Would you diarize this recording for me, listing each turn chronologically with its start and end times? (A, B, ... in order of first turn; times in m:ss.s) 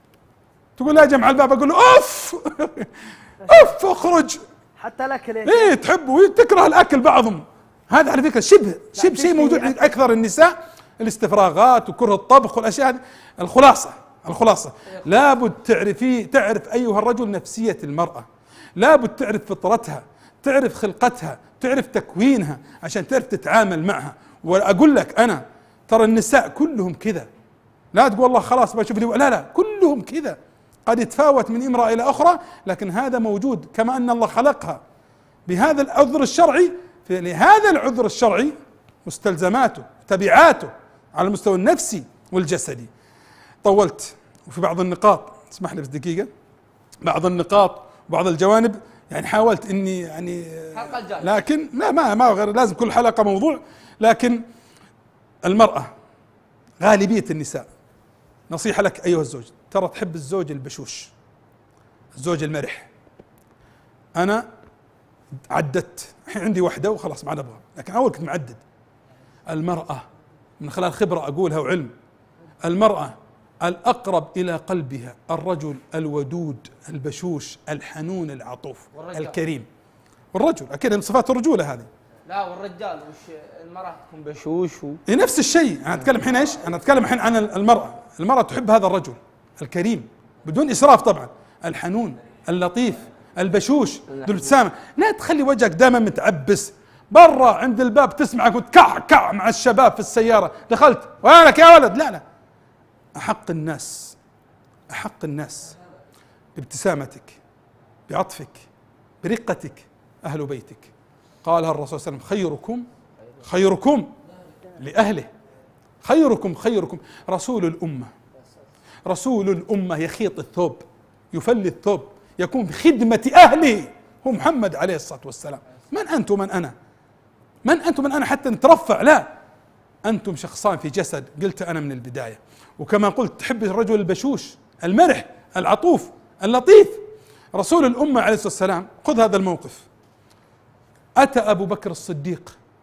0:00.8-0:02.9 A
0:03.5-0:03.7 B
0:03.5-0:04.4 A
0:04.8-0:05.8 B
0:05.4-0:27.3 A
0:09.0-0:09.9 B
0:27.9-0:34.8 A
0:35.5-0:42.9 A
0:43.6-0:46.3 A
0:47.0-0:54.4 A
0:50.7-0:51.4 C
0:55.4-0:55.9 A
0:56.8-0:57.7 A
0:58.5-1:01.1 A
1:02.2-1:02.9 A
1:04.2-1:04.5 A
1:05.5-1:08.6 A
1:09.5-1:10.0 A
1:10.6-1:11.9 A
1:12.6-1:19.7 A
1:18.9-1:19.4 C
1:20.3-1:21.9 A
1:22.3-1:25.0 C
1:25.1-1:42.2 A
1:34.1-1:34.5 C
1:43.2-1:44.2 A
1:44.9-1:45.8 A
1:46.6-1:47.4 A
1:48.1-1:48.7 A
1:49.2-1:50.9 A
1:51.4-1:52.9 A
1:53.4-1:54.1 A
1:54.8-1:55.3 A
1:56.0-1:58.1 A
1:59.0-2:00.8 A
2:01.3-2:06.7 A
2:07.6-2:09.3 A
2:10.0-2:19.8 A
2:21.2-2:22.6 A